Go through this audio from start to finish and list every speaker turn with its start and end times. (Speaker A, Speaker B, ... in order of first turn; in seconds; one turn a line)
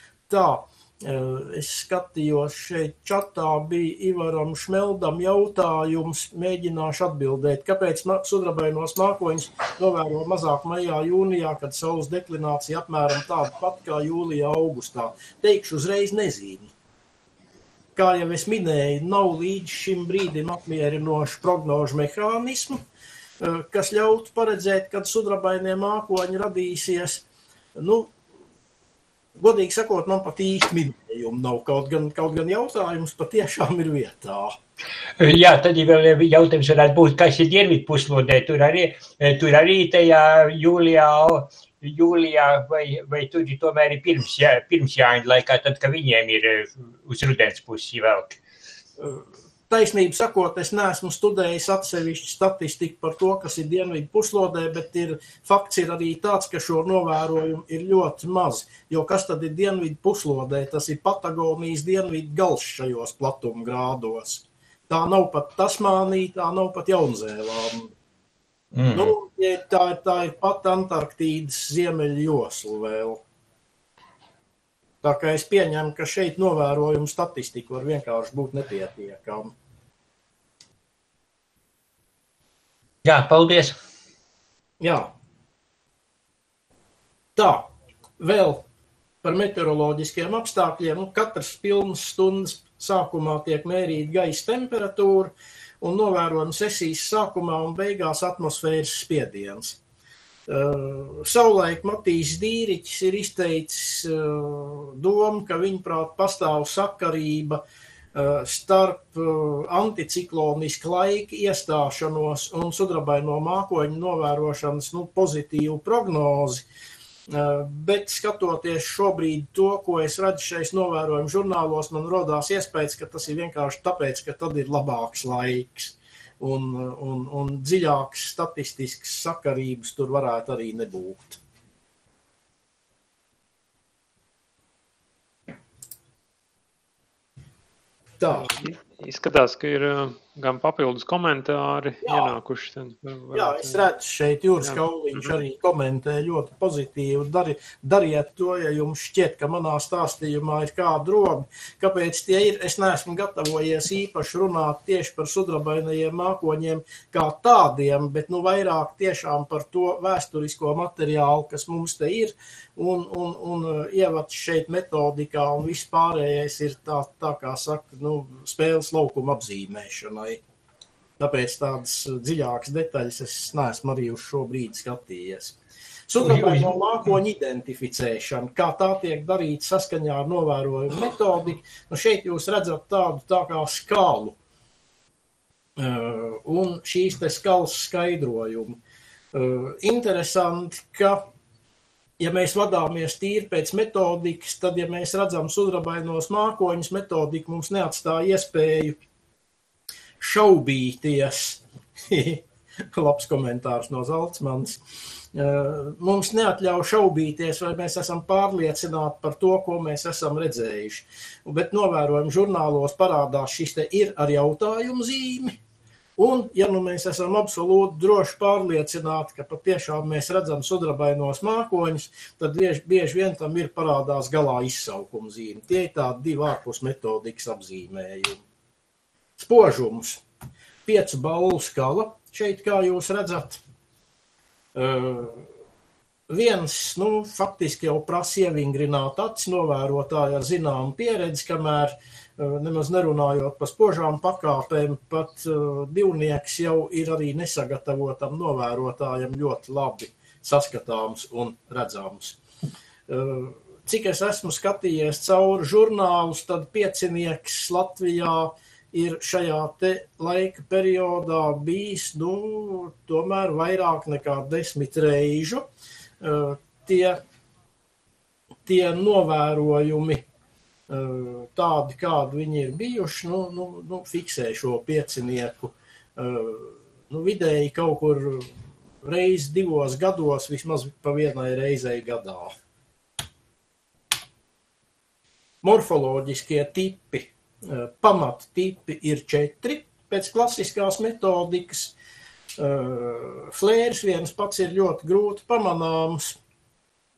Speaker A: 0.3-16.7
Speaker A: 17.9-22.8
Speaker A: 23.4-27.2
Speaker A: 27.8-28.1
Speaker A: 29.4-34.6
Speaker B: 35.2-48.4
Speaker A: 49.0-67.9
Speaker B: 68.8-69.1
Speaker A: 68.9-73.2
Speaker A: 75.0-79.5
Speaker B: 83.0-83.8
Speaker A: 84.8-85.1
Speaker A: 87.4-88.7
Speaker A: 89.2-99.8
Speaker A: 100.5-107.6
Speaker A: 108.2-116.7
Speaker A: 117.3-131.4
Speaker A: 138.2-138.5
Speaker C: 138.3-143.9
Speaker A: 142.0-142.3
Speaker A: 143.3-170.4
Speaker C: 144.6-145.3
Speaker A: 171.2-175.6
Speaker A: 176.1-184.4
Speaker A: 185.8-188.8
Speaker A: 189.3-191.3
Speaker A: 192.2-199.0
Speaker A: 200.2-202.4
Speaker A: 202.9-204.8
Speaker A: 205.3-215.6
Speaker A: 216.2-228.4
Speaker A: 229.4-230.2
Speaker A: 230.9-233.6
Speaker A: 234.8-235.5
Speaker A: 236.3-252.4
Speaker A: 253.1-265.7
Speaker A: 266.2-267.2
Speaker A: 268.7-270.2
Speaker A: 270.9-278.5
Speaker A: 279.0-282.5
Speaker A: 285.6-291.9
Speaker A: 292.6-296.4